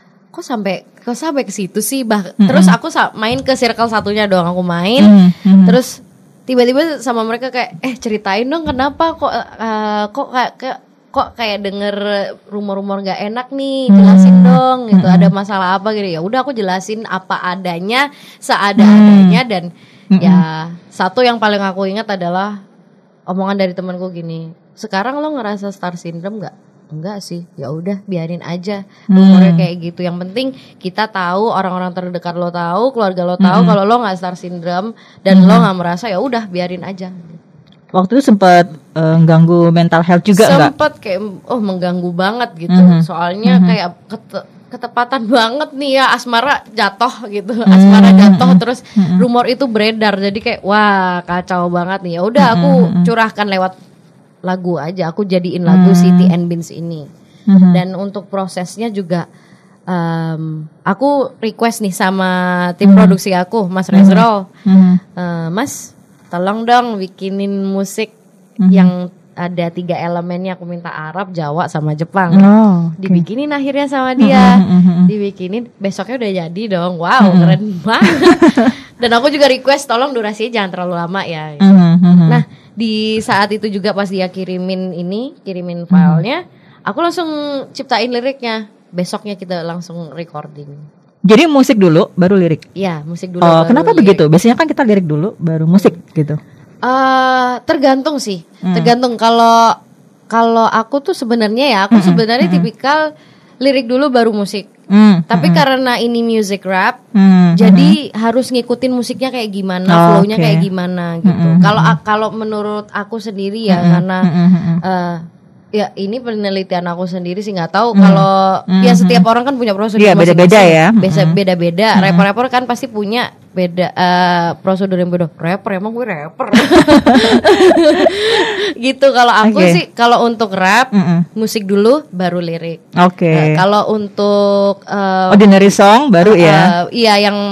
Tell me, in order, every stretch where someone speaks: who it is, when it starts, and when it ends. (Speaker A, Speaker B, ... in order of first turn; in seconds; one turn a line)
Speaker A: 0.3-19.7
Speaker B: 2.4-2.8
Speaker B: 5.0-5.8
Speaker B: 13.9-15.3
Speaker B: 18.8-19.4
Speaker B: 20.1-20.4
Speaker A: 20.2-22.6
Speaker A: 23.3-37.4
Speaker B: 29.1-29.7
Speaker B: 33.4-33.8
Speaker B: 35.3-35.7
Speaker B: 37.9-40.7
Speaker A: 40.3-53.8
Speaker B: 42.7-43.8
Speaker B: 47.7-49.2
Speaker B: 52.4-53.1
Speaker A: 54.5-57.1
Speaker B: 55.7-56.3
Speaker B: 57.5-57.8
Speaker A: 57.7-59.3
Speaker A: 59.9-64.5
Speaker B: 62.8-63.2
Speaker B: 63.9-65.0
Speaker A: 65.2-68.1
Speaker B: 68.6-68.9
Speaker A: 68.7-81.7
Speaker B: 72.3-73.3
Speaker B: 74.2-75.1
Speaker B: 77.2-77.6
Speaker B: 78.3-78.6
Speaker B: 81.6-82.4
Speaker A: 82.3-90.8
Speaker B: 85.9-86.2
Speaker B: 91.3-92.6
Speaker A: 92.8-94.2
Speaker B: 93.4-96.4
Speaker A: 96.8-99.8
Speaker B: 98.6-98.9
Speaker A: 100.3-103.0
Speaker B: 101.9-102.7
Speaker A: 103.6-104.7
Speaker B: 104.9-105.6
Speaker A: 105.3-107.0
Speaker B: 107.2-108.0
Speaker A: 107.6-114.3
Speaker B: 109.9-110.7
Speaker B: 111.2-112.0
Speaker B: 113.7-114.8
Speaker A: 114.8-115.2
Speaker A: 115.8-137.4
Speaker B: 118.0-119.3
Speaker B: 120.0-121.4
Speaker B: 122.0-122.2
Speaker B: 126.7-127.9
Speaker B: 129.4-129.8
Speaker B: 130.9-131.3
Speaker B: 133.0-133.6
Speaker B: 135.3-136.7